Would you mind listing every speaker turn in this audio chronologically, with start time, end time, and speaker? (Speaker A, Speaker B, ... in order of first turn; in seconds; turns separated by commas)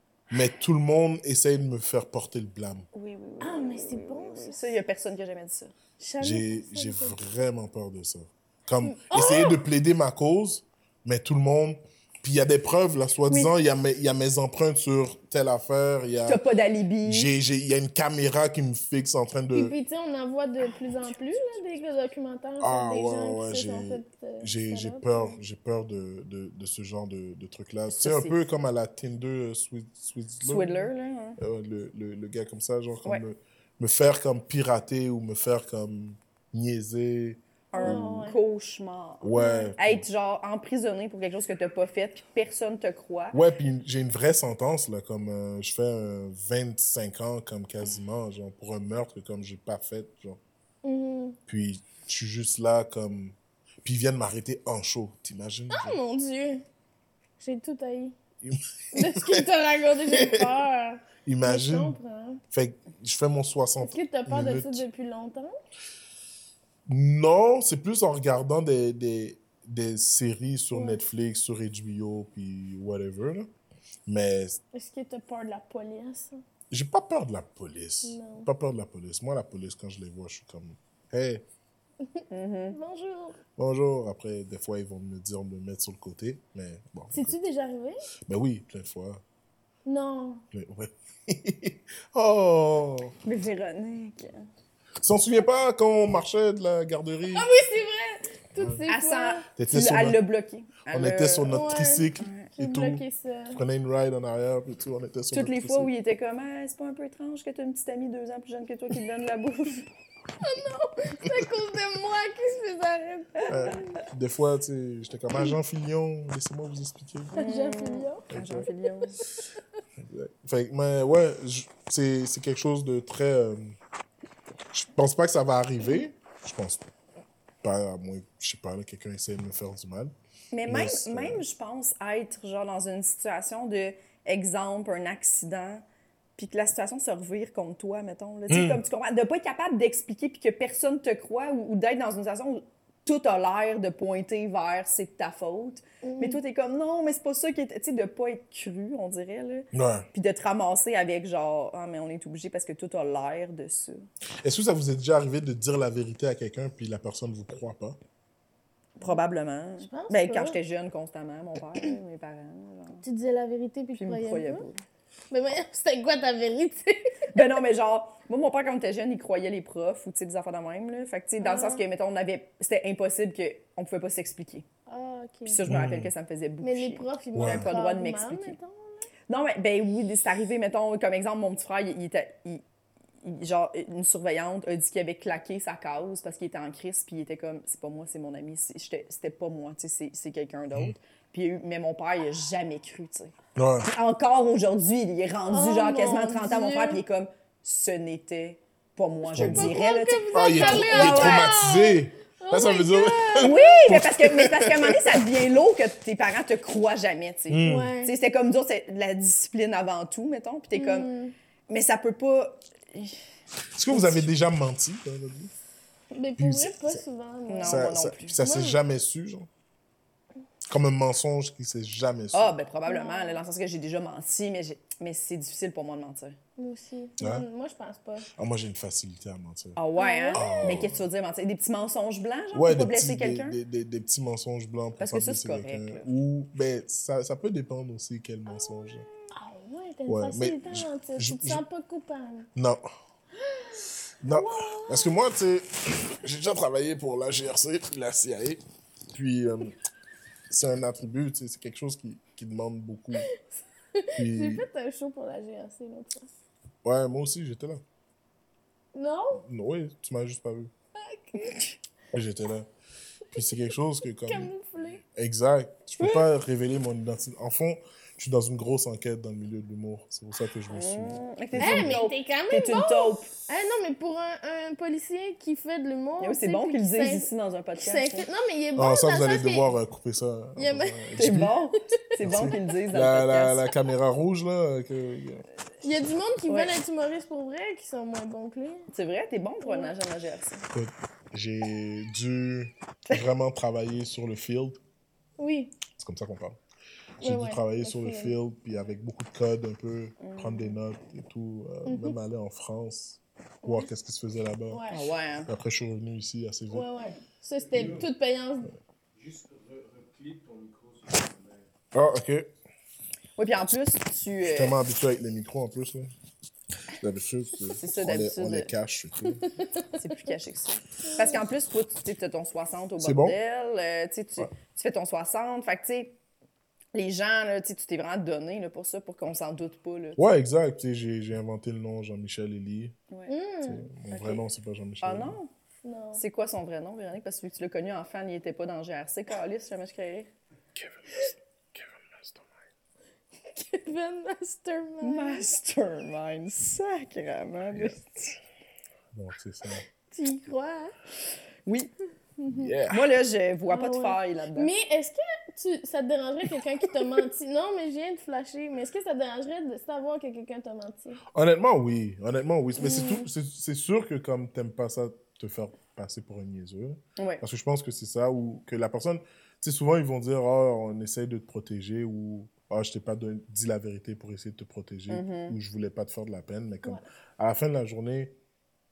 Speaker A: 0.3-2.9, Speaker B: 2.9-5.7, Speaker C: 3.4-4.6, Speaker C: 6.0-7.2, Speaker A: 6.2-16.4, Speaker C: 8.8-9.6, Speaker B: 16.2-17.3, Speaker A: 17.1-19.8, Speaker C: 19.5-25.4, Speaker A: 22.6-38.1, Speaker B: 27.9-28.4, Speaker B: 30.4-31.4, Speaker B: 37.7-43.4, Speaker C: 37.8-38.4, Speaker A: 39.2-40.0, Speaker C: 39.4-39.7, Speaker A: 43.3-50.4, Speaker C: 50.8-51.4, Speaker A: 51.5-56.0, Speaker C: 55.7-56.6, Speaker C: 57.4-58.1, Speaker A: 58.4-59.5, Speaker C: 58.9-62.4, Speaker A: 60.0-60.5, Speaker A: 61.3-62.0, Speaker A: 62.5-64.8, Speaker C: 63.8-65.5, Speaker A: 66.9-73.5, Speaker C: 70.7-71.0, Speaker A: 74.1-74.6, Speaker C: 74.7-76.4, Speaker A: 76.7-81.4, Speaker C: 78.0-78.5, Speaker C: 82.2-83.4, Speaker B: 82.3-82.8, Speaker A: 83.6-87.4, Speaker C: 87.1-88.0, Speaker A: 88.3-89.2, Speaker C: 89.9-90.4, Speaker A: 90.5-93.2, Speaker B: 93.2-94.5, Speaker A: 95.0-97.5, Speaker C: 97.3-99.5, Speaker B: 98.9-101.6, Speaker A: 99.6-100.2, Speaker A: 100.9-103.0, Speaker C: 101.5-103.6, Speaker B: 102.2-102.5, Speaker A: 103.5-105.9, Speaker B: 105.3-109.9, Speaker C: 110.4-113.8, Speaker B: 113.4-114.0, Speaker A: 113.5-117.4, Speaker B: 117.3-119.2, Speaker C: 117.3-118.3, Speaker A: 118.3-118.7, Speaker A: 120.0-123.8, Speaker A: 124.7-126.8, Speaker A: 127.6-130.1, Speaker B: 130.5-135.8, Speaker A: 130.7-131.4, Speaker B: 136.4-154.1, Speaker A: 138.5-138.8, Speaker C: 146.0-146.4, Speaker A: 149.7-150.1, Speaker A: 154.4-158.0, Speaker B: 159.0-163.0, Speaker C: 159.8-160.6, Speaker C: 163.0-164.7, Speaker B: 164.0-164.8, Speaker C: 165.3-167.4, Speaker B: 167.3-174.7, Speaker C: 171.4-171.8, Speaker C: 174.9-175.6, Speaker B: 175.5-178.6, Speaker A: 175.7-176.1, Speaker C: 176.6-179.1, Speaker A: 177.3-177.7, Speaker B: 179.3-182.6, Speaker B: 183.2-201.5, Speaker A: 193.6-193.9, Speaker C: 195.5-197.0, Speaker C: 199.3-203.8, Speaker A: 199.3-199.8, Speaker A: 200.3-205.2, Speaker B: 203.4-211.1, Speaker A: 207.5-207.9, Speaker C: 207.6-208.1, Speaker C: 210.8-211.3, Speaker B: 211.7-213.2, Speaker A: 213.8-215.5, Speaker B: 213.9-214.3, Speaker C: 216.1-217.9, Speaker A: 216.4-217.0, Speaker B: 217.5-218.4, Speaker A: 217.6-219.5, Speaker C: 218.4-218.8, Speaker A: 220.7-222.6, Speaker B: 222.3-226.4, Speaker C: 222.9-223.4, Speaker C: 226.6-228.3, Speaker A: 227.2-227.4, Speaker A: 228.3-229.8, Speaker B: 229.8-233.6, Speaker C: 230.0-230.8, Speaker A: 230.3-231.0, Speaker A: 232.5-239.1, Speaker B: 235.0-236.1, Speaker C: 239.3-242.5, Speaker A: 240.1-241.6, Speaker A: 242.6-242.8, Speaker C: 243.4-245.1, Speaker A: 244.2-248.6, Speaker A: 249.1-249.8, Speaker A: 250.5-253.3, Speaker C: 254.0-256.3, Speaker A: 254.2-254.7, Speaker A: 256.8-257.8, Speaker C: 258.9-259.4, Speaker A: 259.3-260.7, Speaker C: 261.0-261.6, Speaker A: 262.1-262.7, Speaker A: 263.3-264.5, Speaker C: 264.3-265.0, Speaker A: 265.1-272.0, Speaker B: 270.7-273.3, Speaker C: 271.6-279.7, Speaker B: 276.2-278.3, Speaker A: 278.8-281.6, Speaker C: 280.6-281.5, Speaker B: 281.2-283.7, Speaker A: 282.2-285.4, Speaker C: 285.8-288.9, Speaker B: 286.5-286.8, Speaker B: 288.9-290.7, Speaker C: 289.6-289.9, Speaker A: 290.7-294.8, Speaker C: 295.4-295.7, Speaker A: 295.9-296.6, Speaker A: 297.2-304.9, Speaker C: 297.2-298.4, Speaker B: 300.2-300.8, Speaker C: 301.9-302.1, Speaker C: 304.7-305.0, Speaker B: 304.9-305.5, Speaker A: 305.4-306.9, Speaker C: 306.7-308.7, Speaker D: 307.6-308.1, Speaker D: 309.1-311.7, Speaker A: 311.9-312.5, Speaker B: 313.4-314.8, Speaker A: 314.5-316.1, Speaker A: 316.9-319.4, Speaker B: 317.8-318.7, Speaker B: 320.0-326.2, Speaker C: 321.1-321.4, Speaker A: 323.0-323.4, Speaker B: 326.9-330.2, Speaker A: 330.2-333.0, Speaker C: 333.3-333.8, Speaker A: 333.6-335.4, Speaker B: 334.1-334.4, Speaker B: 335.0-335.5, Speaker C: 335.8-336.2, Speaker B: 336.2-340.3, Speaker A: 340.8-342.5, Speaker C: 343.5-345.4, Speaker B: 345.0-348.4, Speaker A: 347.7-348.0, Speaker A: 349.1-349.8, Speaker C: 350.1-350.9, Speaker B: 351.7-351.9, Speaker A: 352.5-353.1, Speaker B: 352.9-354.7, Speaker C: 353.7-361.2, Speaker A: 361.3-378.4, Speaker C: 362.8-363.3, Speaker B: 367.2-367.4, Speaker B: 375.1-375.6